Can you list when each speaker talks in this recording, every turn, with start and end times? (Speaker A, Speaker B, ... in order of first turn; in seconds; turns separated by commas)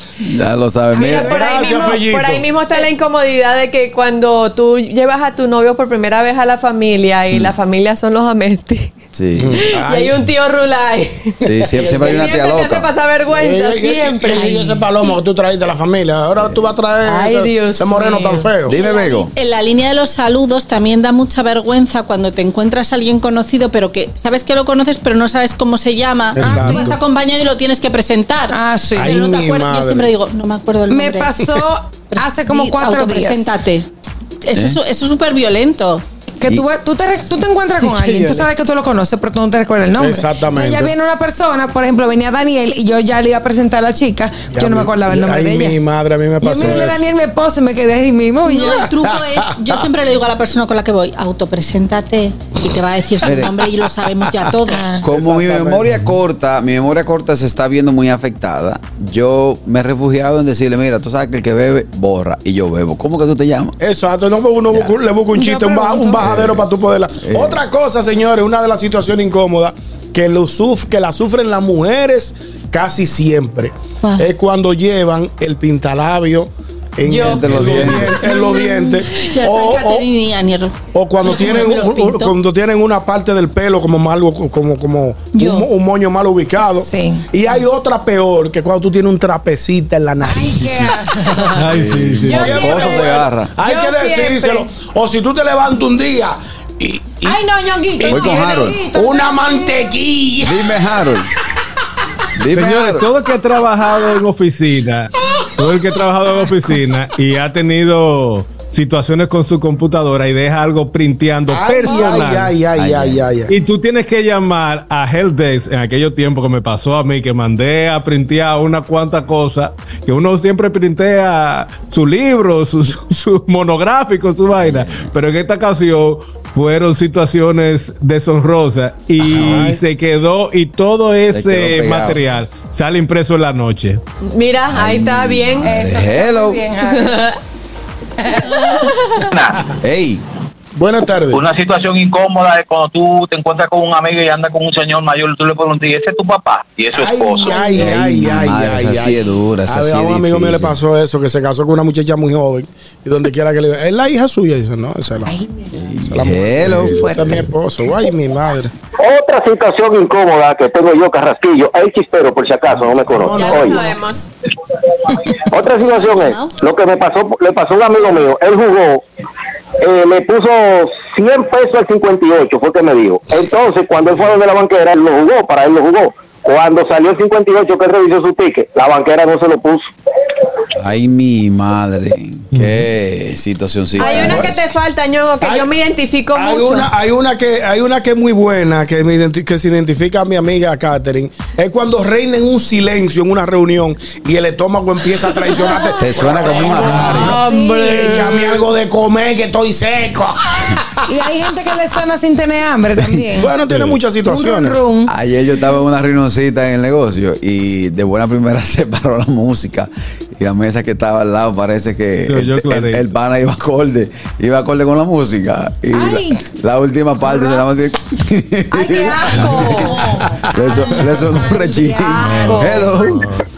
Speaker A: 0.2-1.4, Speaker B: 0.9-1.8, Speaker C: 1.0-8.9, Speaker D: 1.3-2.5, Speaker A: 9.1-9.7, Speaker D: 9.4-10.3, Speaker C: 9.8-11.3, Speaker A: 11.4-12.9, Speaker D: 11.7-12.3, Speaker C: 11.9-15.1, Speaker D: 13.3-18.8, Speaker A: 16.4-16.7, Speaker C: 17.0-18.5, Speaker A: 18.6-19.3, Speaker E: 18.7-31.5, Speaker D: 26.3-27.0, Speaker B: 26.5-26.8, Speaker B: 28.5-29.0, Speaker D: 28.9-30.1, Speaker B: 30.9-33.5, Speaker E: 32.1-33.9, Speaker E: 34.4-36.0, Speaker A: 34.5-34.8, Speaker B: 36.4-45.8, Speaker E: 37.9-38.5, Speaker D: 39.9-40.9, Speaker D: 44.5-47.1, Speaker B: 46.5-48.6, Speaker E: 48.5-55.0, Speaker A: 53.2-53.6, Speaker D: 55.0-55.8, Speaker A: 55.0-63.8, Speaker D: 63.8-80.0, Speaker A: 64.7-65.0, Speaker B: 65.3-66.2, Speaker A: 66.2-66.7, Speaker A: 67.2-67.6, Speaker C: 77.0-77.8, Speaker A: 77.1-78.2, Speaker E: 78.2-82.3, Speaker D: 80.9-91.0, Speaker E: 85.3-85.7, Speaker B: 86.8-87.1, Speaker B: 90.3-91.2, Speaker C: 91.2-91.5, Speaker A: 91.5-93.5, Speaker F: 91.5-92.6, Speaker C: 92.2-94.7, Speaker D: 92.3-97.4, Speaker B: 97.3-99.4, Speaker D: 98.0-100.6, Speaker A: 98.0-98.8, Speaker A: 100.4-101.3, Speaker A: 102.4-103.1, Speaker F: 102.5-112.5, Speaker D: 111.5-113.5, Speaker A: 112.7-113.3, Speaker F: 113.5-134.0, Speaker A: 124.6-125.1, Speaker A: 129.2-129.8, Speaker A: 131.3-132.2, Speaker C: 134.2-135.7, Speaker A: 134.7-136.6, Speaker B: 135.6-137.2, Speaker C: 136.8-137.4, Speaker C: 138.4-139.2, Speaker A: 139.8-140.2, Speaker D: 140.7-141.6, Speaker G: 141.3-147.6, Speaker D: 146.9-155.3, Speaker A: 147.7-150.8, Speaker B: 155.3-155.7, Speaker A: 155.7-157.3, Speaker D: 156.1-158.7, Speaker B: 156.9-157.3, Speaker H: 159.0-163.8, Speaker D: 162.7-164.0, Speaker C: 163.3-164.3, Speaker H: 165.5-169.0, Speaker E: 165.8-166.5, Speaker E: 167.9-168.2, Speaker H: 169.8-179.8, Speaker A: 180.7-184.6, Speaker F: 182.5-182.8, Speaker C: 183.9-186.9, Speaker D: 184.0-184.6, Speaker D: 185.4-185.7, Speaker D: 186.3-201.0, Speaker E: 195.8-196.1, Speaker A: 196.0-197.4, Speaker C: 196.4-196.8, Speaker E: 196.8-197.4, Speaker B: 197.3-198.2, Speaker B: 201.1-203.6, Speaker D: 203.2-204.8, Speaker B: 204.2-205.1, Speaker A: 205.1-223.3, Speaker F: 212.3-213.1, Speaker B: 215.9-216.4, Speaker B: 217.3-217.6, Speaker C: 218.7-220.2, Speaker D: 220.7-221.2, Speaker B: 221.7-222.0, Speaker C: 222.0-223.0